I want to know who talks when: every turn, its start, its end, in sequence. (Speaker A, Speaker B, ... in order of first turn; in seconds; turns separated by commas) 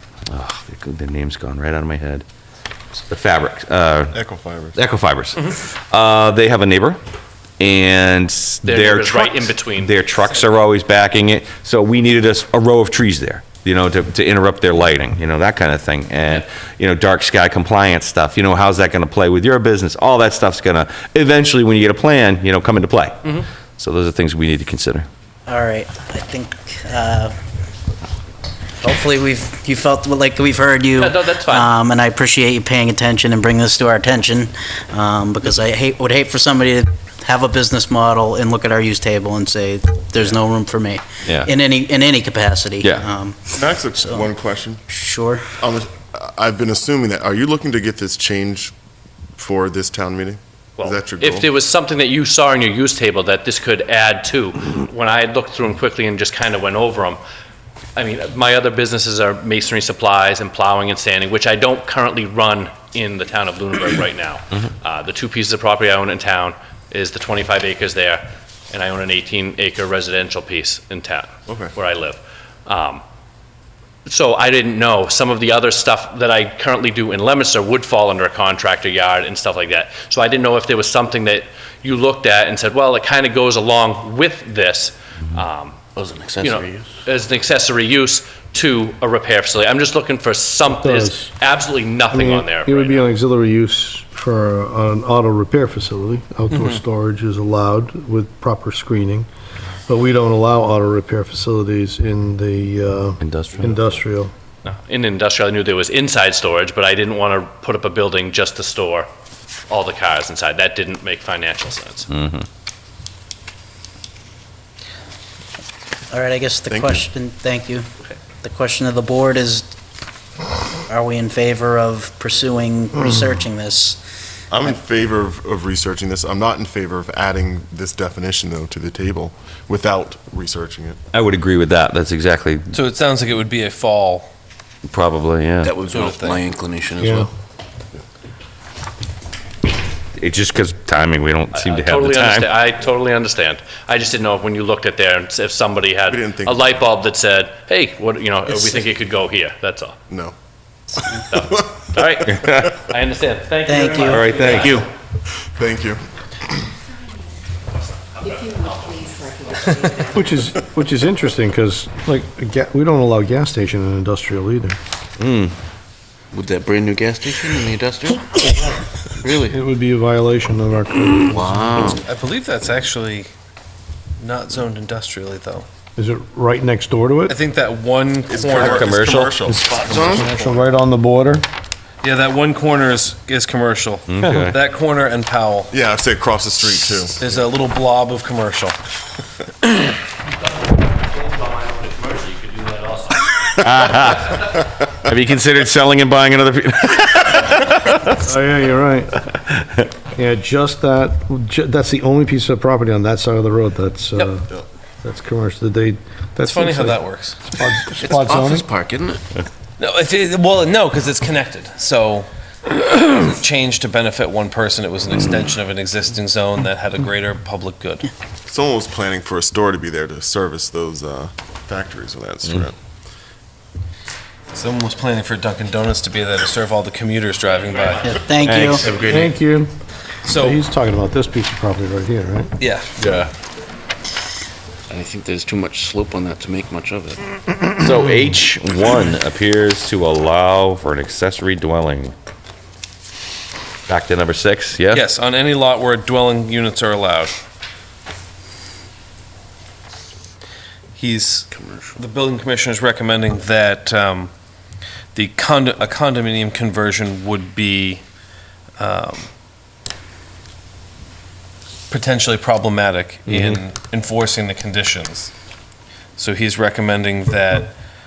Speaker A: 0.3-2.2, Speaker A: 3.1-4.1, Speaker B: 4.1-4.8, Speaker A: 4.8-7.0, Speaker A: 7.6-23.2, Speaker C: 8.6-10.6, Speaker A: 23.8-25.1, Speaker D: 25.4-27.3, Speaker D: 28.8-44.2, Speaker C: 31.0-31.7, Speaker B: 43.5-44.8, Speaker D: 44.9-45.5, Speaker B: 45.6-48.7, Speaker B: 49.4-51.5, Speaker C: 50.8-57.2, Speaker C: 58.0-73.0, Speaker B: 71.5-71.7, Speaker C: 74.0-85.8, Speaker E: 86.0-86.8, Speaker C: 86.4-93.0, Speaker F: 90.7-91.3, Speaker F: 92.1-99.3, Speaker F: 99.9-104.3, Speaker A: 103.2-104.0, Speaker C: 104.6-109.1, Speaker C: 109.7-112.1, Speaker A: 112.1-112.4, Speaker D: 116.1-117.9, Speaker B: 116.7-117.0, Speaker D: 118.4-119.7, Speaker D: 120.9-124.0, Speaker B: 124.5-131.0, Speaker A: 131.1-132.7, Speaker G: 132.7-134.3, Speaker A: 134.9-135.8, Speaker E: 135.7-137.1, Speaker G: 135.8-136.4, Speaker F: 137.0-137.3, Speaker A: 140.2-142.5, Speaker C: 141.5-150.0, Speaker B: 146.1-146.6, Speaker B: 150.1-150.3, Speaker C: 151.3-154.8, Speaker B: 151.3-151.8, Speaker A: 152.3-152.7, Speaker D: 153.7-154.3, Speaker A: 154.1-154.8, Speaker B: 155.4-156.0, Speaker C: 158.1-160.0, Speaker H: 158.2-160.3, Speaker F: 160.1-164.8, Speaker A: 165.2-165.5, Speaker E: 166.3-168.2, Speaker E: 169.2-169.5, Speaker F: 169.4-171.8, Speaker E: 171.4-172.0, Speaker G: 172.1-173.3, Speaker G: 174.2-175.7, Speaker F: 175.9-177.4, Speaker G: 177.3-178.9, Speaker B: 178.3-180.6, Speaker A: 178.5-179.4, Speaker F: 179.4-181.5, Speaker G: 182.0-185.7, Speaker A: 184.1-184.6, Speaker B: 185.7-187.2, Speaker G: 187.2-188.8, Speaker C: 190.5-193.3, Speaker A: 193.6-198.2, Speaker F: 198.2-199.2, Speaker F: 200.1-204.5, Speaker F: 205.0-207.0, Speaker G: 206.4-207.4, Speaker F: 207.6-208.7, Speaker E: 208.0-209.2, Speaker G: 209.8-218.1, Speaker B: 218.5-222.8, Speaker G: 224.5-228.9, Speaker C: 227.5-228.9, Speaker D: 228.0-228.8, Speaker A: 228.4-228.8, Speaker F: 229.1-229.7, Speaker G: 230.2-230.6, Speaker F: 230.3-232.5, Speaker G: 232.6-232.9, Speaker E: 234.9-237.1, Speaker A: 237.7-242.1, Speaker A: 243.9-245.0, Speaker G: 244.9-247.3, Speaker G: 251.0-254.3, Speaker E: 251.6-251.9, Speaker G: 255.1-258.0, Speaker G: 258.8-259.3, Speaker G: 261.9-265.3, Speaker A: 263.3-263.6, Speaker G: 266.2-267.7